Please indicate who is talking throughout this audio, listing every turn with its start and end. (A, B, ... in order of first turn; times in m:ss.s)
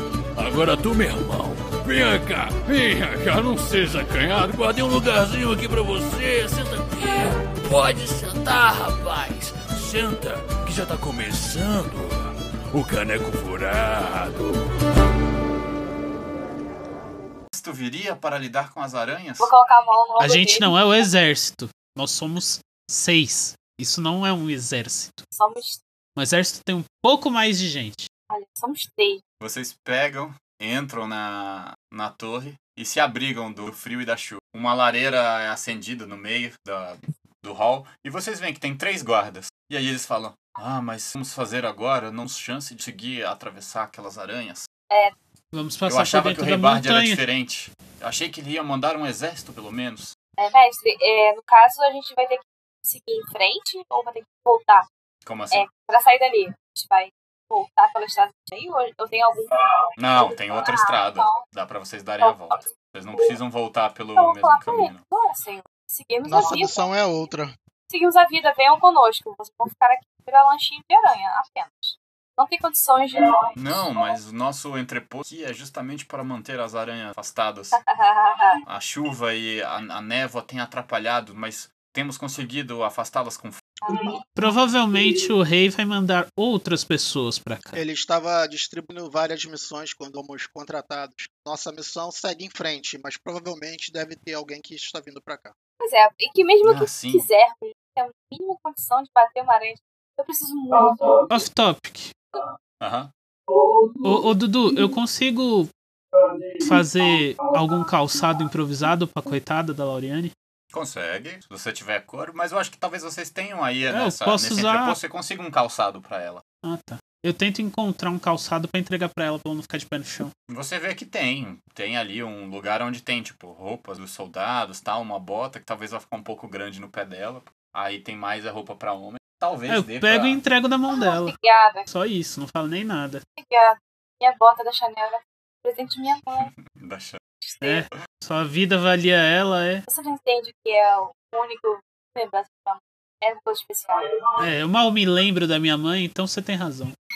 0:00.4-0:14.5 A
0:17.5-0:19.5 B
0:19.4-0:21.1 C
0:20.2-0:25.2 D
0:25.3-0:25.8 C
0:26.2-0:28.1 D
0:28.3-0:29.2 C
0:29.4-0:44.7 B
0:44.9-0:45.1 C
0:45.5-0:47.2 D
0:45.9-0:50.1 B
0:50.4-0:54.8 C
0:55.2-0:55.6 B
0:55.5-1:01.4 C
1:00.0-1:05.0 B
1:02.2-1:03.4 C
1:04.2-1:06.9 C
1:06.2-1:07.5 E
1:07.9-1:14.1 C
1:13.6-1:17.8 B
1:17.8-1:18.6 C
1:18.6-1:23.6 B
1:23.8-1:24.2 C
1:24.3-1:27.8 D
1:27.7-1:35.5 E
1:35.8-1:41.3 C
1:36.6-1:37.3 B
1:41.3-1:42.1 D
1:42.8-1:43.1 B
1:43.6-1:43.9 C
1:44.0-1:45.7 D
1:46.6-1:50.3 D
1:46.7-1:47.2 C
1:50.7-1:56.4 B
1:53.9-1:55.0 D
1:56.6-2:00.3 D
2:00.5-2:10.4 B
2:09.7-2:11.4 D
2:10.9-2:11.9 C
2:11.9-2:13.2 D
2:13.4-2:16.5 C
2:16.7-2:17.2 B
2:17.4-2:17.8 C
2:17.6-2:19.8 D
2:19.9-2:24.0 C
2:24.4-2:26.9 D